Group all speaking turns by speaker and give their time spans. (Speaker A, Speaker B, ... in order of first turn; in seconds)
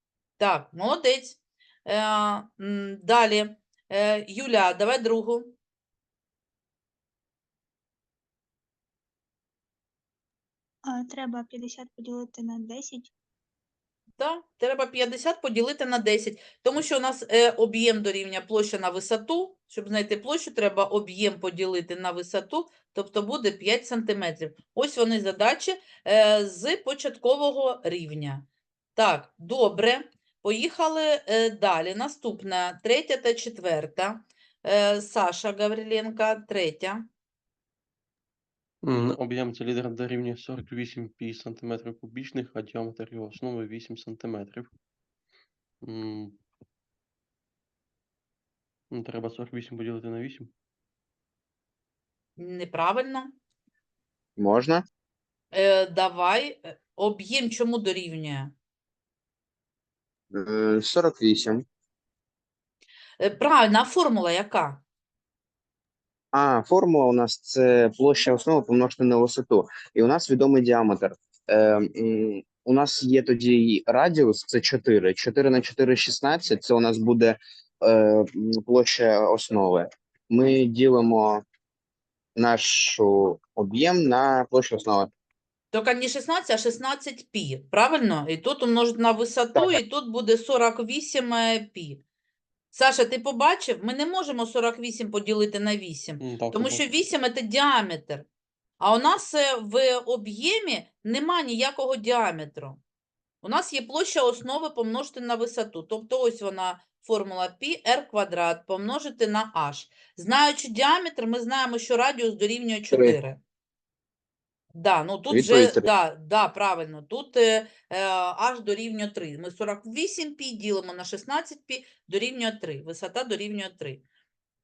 Speaker A: 0.4-5.6, 14.2-37.1, 52.4-53.4, 55.5-58.5, 63.2-64.8, 85.7-92.0, 92.7-98.3, 98.8-102.8, 103.4-113.4, 114.7-124.0
Speaker B: 10.9-13.1
Speaker C: 38.8-44.7, 45.8-46.4, 48.9-50.5, 96.2-96.8
Speaker D: 54.4-54.8, 60.3-61.6, 66.3-81.4, 82.4-85.1, 89.5-89.8, 112.9-113.2, 115.3-115.9